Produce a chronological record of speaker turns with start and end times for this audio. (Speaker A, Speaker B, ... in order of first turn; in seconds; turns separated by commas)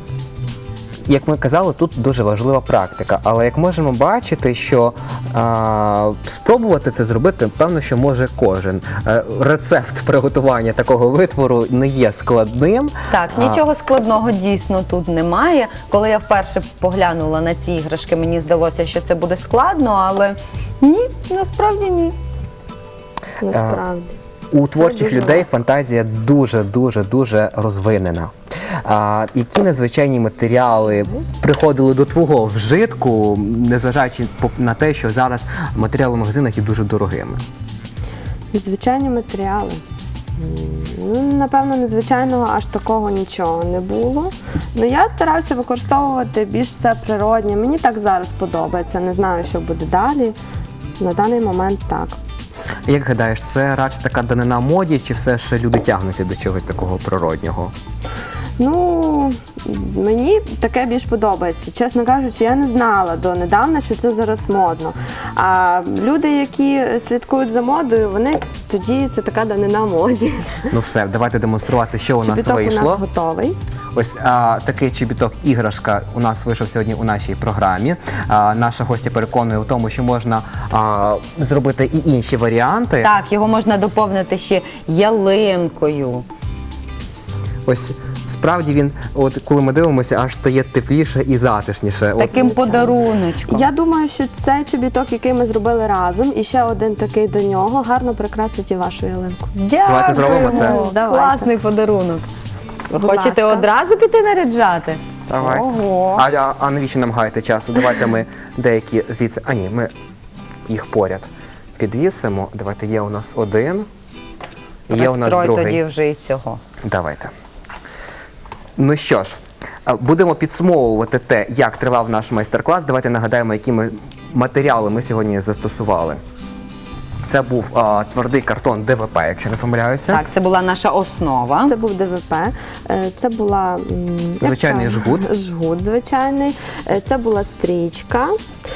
Speaker A: 1.1-13.6, Speaker B: 13.1-22.1, Speaker C: 23.4-25.5, Speaker A: 23.5-23.8, Speaker A: 24.5-28.3, Speaker A: 28.9-37.4, Speaker C: 38.5-39.8, Speaker C: 40.4-50.4, Speaker C: 51.0-52.2, Speaker A: 52.9-57.7, Speaker C: 58.6-70.7, Speaker A: 70.7-73.0, Speaker C: 72.2-73.6, Speaker A: 74.0-83.1, Speaker B: 83.0-86.3, Speaker A: 87.7-92.5, Speaker B: 92.2-93.7, Speaker C: 92.4-92.9, Speaker C: 93.5-99.5, Speaker B: 99.6-102.3, Speaker A: 99.9-100.8, Speaker C: 100.1-101.5, Speaker B: 102.9-106.2, Speaker C: 102.9-103.7, Speaker A: 105.3-109.9, Speaker A: 110.7-113.9, Speaker A: 114.9-115.8, Speaker B: 114.9-116.6, Speaker A: 116.8-117.3, Speaker A: 118.8-126.2, Speaker A: 127.3-130.2, Speaker B: 130.1-131.7, Speaker C: 131.6-138.3, Speaker A: 134.4-135.3